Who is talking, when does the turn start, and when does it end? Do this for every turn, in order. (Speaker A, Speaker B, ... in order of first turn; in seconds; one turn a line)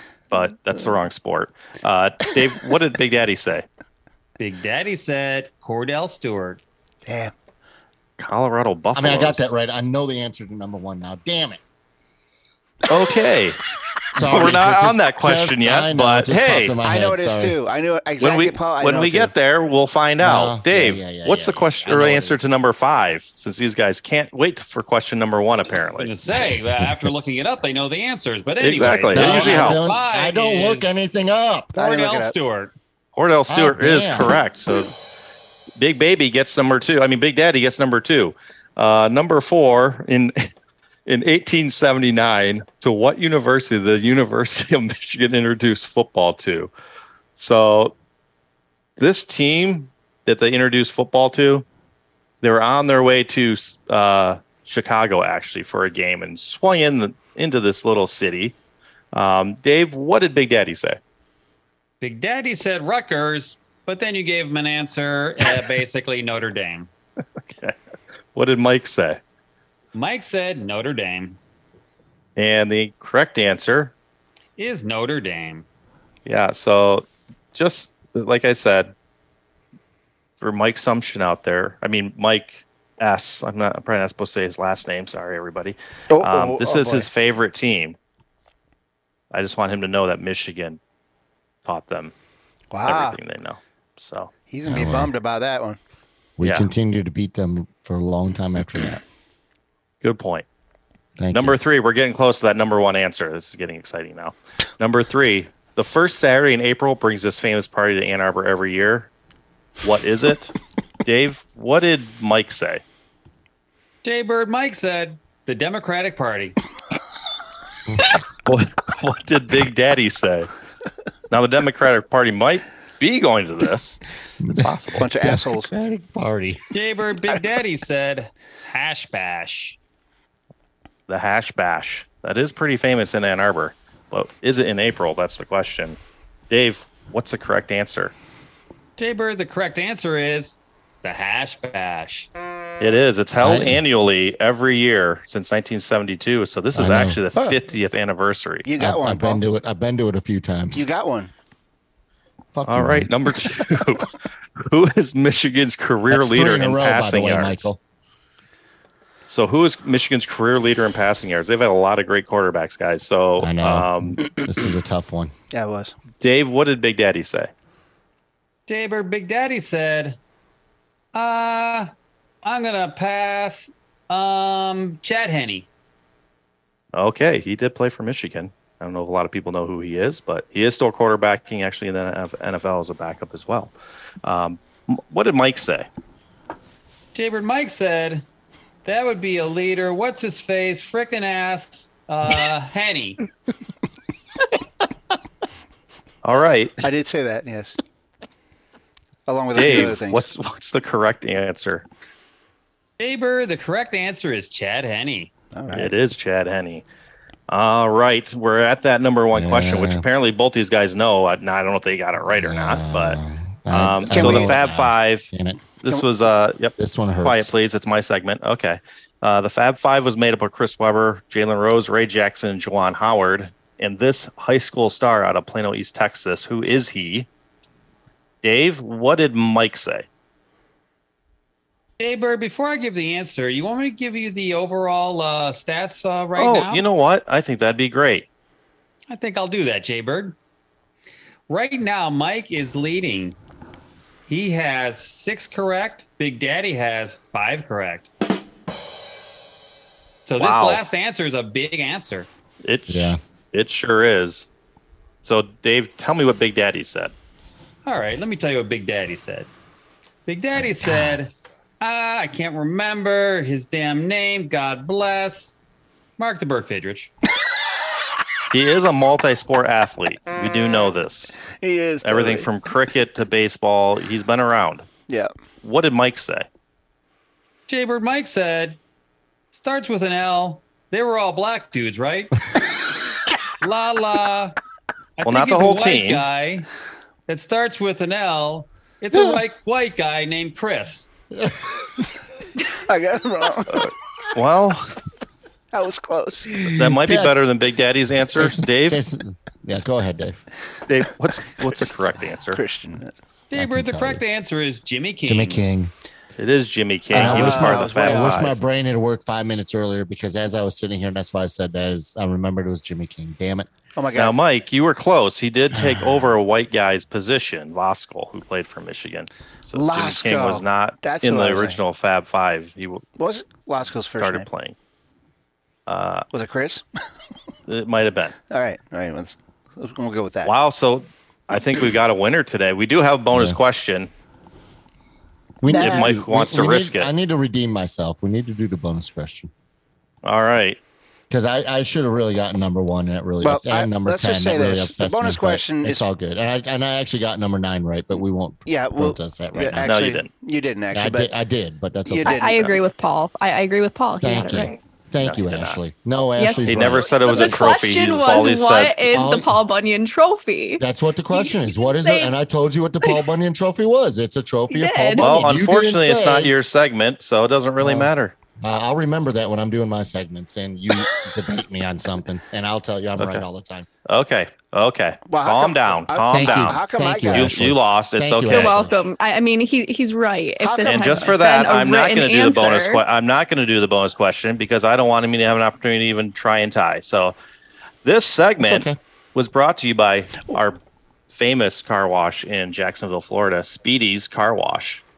Speaker A: 0.3-3.7
Speaker B: 4.4-6.6
Speaker C: 7.1-7.3
Speaker A: 8.2-9.5
Speaker D: 8.9-11.7
Speaker A: 12.9-13.6
Speaker D: 14.2-17.6
Speaker A: 14.2-16.8
Speaker C: 16.8-19.3
Speaker A: 18.2-26.1
Speaker D: 20.2-22.4
Speaker B: 26.0-30.9
Speaker D: 26.3-27.1
Speaker A: 28.6-30.0
Speaker D: 29.1-31.7
Speaker C: 31.8-32.3
Speaker B: 31.8-32.7
Speaker A: 33.2-34.9
Speaker D: 33.5-34.3
Speaker A: 35.8-40.5
Speaker A: 41.1-46.7
Speaker A: 47.4-48.0
Speaker A: 49.0-51.7
Speaker A: 52.4-58.5
Speaker A: 59.1-61.0
Speaker B: 62.0-66.9
Speaker A: 67.5-67.8
Speaker A: 68.3-69.2
Speaker B: 69.9-71.4
Speaker A: 72.4-73.9
Speaker B: 74.6-75.7
Speaker A: 76.3-78.9
Speaker A: 80.4-88.0
Speaker C: 86.1-87.1
Speaker A: 89.3-90.8
Speaker A: 91.7-92.1
Speaker C: 92.7-93.2
Speaker A: 92.8-94.3
Speaker C: 94.5-95.8
Speaker D: 94.7-95.1
Speaker D: 96.4-99.0
Speaker A: 96.4-96.7
Speaker A: 100.0-100.5
Speaker D: 101.2-101.6
Speaker A: 101.3-109.1
Speaker A: 109.8-110.5
Speaker A: 111.0-112.8
Speaker B: 114.0-116.6
Speaker A: 118.5-120.5
Speaker A: 121.3-125.1
Speaker D: 124.4-126.6
Speaker C: 125.0-125.7
Speaker B: 126.7-129.8
Speaker A: 131.1-136.0
Speaker A: 136.5-138.1
Speaker B: 139.0-142.3
Speaker A: 142.8-148.7
Speaker D: 143.4-143.8
Speaker D: 146.8-147.2
Speaker C: 148.7-149.4
Speaker D: 148.8-150.9
Speaker C: 150.7-151.3
Speaker D: 152.5-153.1
Speaker A: 152.7-157.7
Speaker D: 156.1-157.8
Speaker A: 159.3-164.2
Speaker D: 163.4-165.3
Speaker C: 165.5-166.0
Speaker A: 166.2-167.5
Speaker B: 168.7-170.2
Speaker B: 171.1-171.9
Speaker B: 172.4-175.7
Speaker A: 176.9-185.9
Speaker B: 187.1-188.2
Speaker B: 188.8-193.2
Speaker A: 196.2-196.9
Speaker C: 196.8-197.8
Speaker C: 199.3-200.3
Speaker A: 199.5-201.8
Speaker B: 203.0-205.3
Speaker C: 205.5-205.9
Speaker A: 205.7-206.8
Speaker A: 207.5-213.2
Speaker D: 209.3-210.1
Speaker D: 212.4-215.6
Speaker A: 213.7-227.3
Speaker C: 214.1-214.6
Speaker D: 216.8-217.5
Speaker A: 228.4-230.1
Speaker B: 232.0-236.9
Speaker A: 236.4-238.3
Speaker B: 239.1-240.3
Speaker B: 241.5-243.4
Speaker B: 244.3-248.1
Speaker B: 250.3-252.3
Speaker A: 250.4-250.8
Speaker A: 252.6-254.5
Speaker D: 252.9-253.2
Speaker A: 255.2-257.1
Speaker B: 257.9-259.5
Speaker B: 260.3-265.6
Speaker D: 260.6-261.2
Speaker B: 266.2-267.1
Speaker A: 268.5-271.4
Speaker C: 271.6-272.5
Speaker A: 272.0-274.9
Speaker A: 275.6-276.5
Speaker B: 277.7-278.8
Speaker B: 279.5-282.4
Speaker B: 283.6-284.6
Speaker B: 285.2-286.7
Speaker A: 285.3-286.3
Speaker B: 287.3-291.1
Speaker D: 289.1-289.4
Speaker C: 292.7-293.9
Speaker A: 293.7-294.9
Speaker C: 295.7-296.7
Speaker D: 296.6-297.3
Speaker A: 296.7-299.0
Speaker D: 298.4-300.4
Speaker A: 300.9-302.6
Speaker C: 302.5-303.1
Speaker B: 303.5-305.6
Speaker D: 303.6-304.2
Speaker D: 305.2-305.9
Speaker A: 306.4-308.6
Speaker D: 307.1-313.7
Speaker C: 307.1-308.5
Speaker C: 314.0-314.4
Speaker A: 314.1-323.0
Speaker D: 315.7-316.3
Speaker C: 319.7-321.8
Speaker C: 323.2-324.5
Speaker A: 324.1-324.8
Speaker A: 325.9-326.3
Speaker C: 326.3-326.9
Speaker A: 327.7-328.4
Speaker C: 328.5-330.5
Speaker A: 330.4-334.1
Speaker D: 333.3-333.6
Speaker D: 335.6-339.5
Speaker C: 335.7-336.1
Speaker A: 335.7-337.1
Speaker A: 340.2-340.8
Speaker D: 341.3-349.9
Speaker C: 343.4-346.1
Speaker C: 348.7-351.3
Speaker A: 349.8-350.3
Speaker D: 350.9-352.5
Speaker C: 352.1-352.8
Speaker E: 352.2-354.8
Speaker D: 354.2-357.7
Speaker A: 355.2-355.8
Speaker E: 356.4-362.3
Speaker A: 356.7-359.0
Speaker D: 359.1-359.6
Speaker D: 360.8-366.5
Speaker E: 364.7-365.4
Speaker A: 365.2-368.4
Speaker D: 367.8-373.9
Speaker A: 373.2-373.4
Speaker A: 374.1-378.9
Speaker C: 375.3-377.7
Speaker D: 376.3-378.9
Speaker E: 378.5-383.0
Speaker C: 380.6-381.3
Speaker A: 380.8-387.4
Speaker A: 388.0-390.8
Speaker D: 388.6-389.0
Speaker A: 391.3-395.0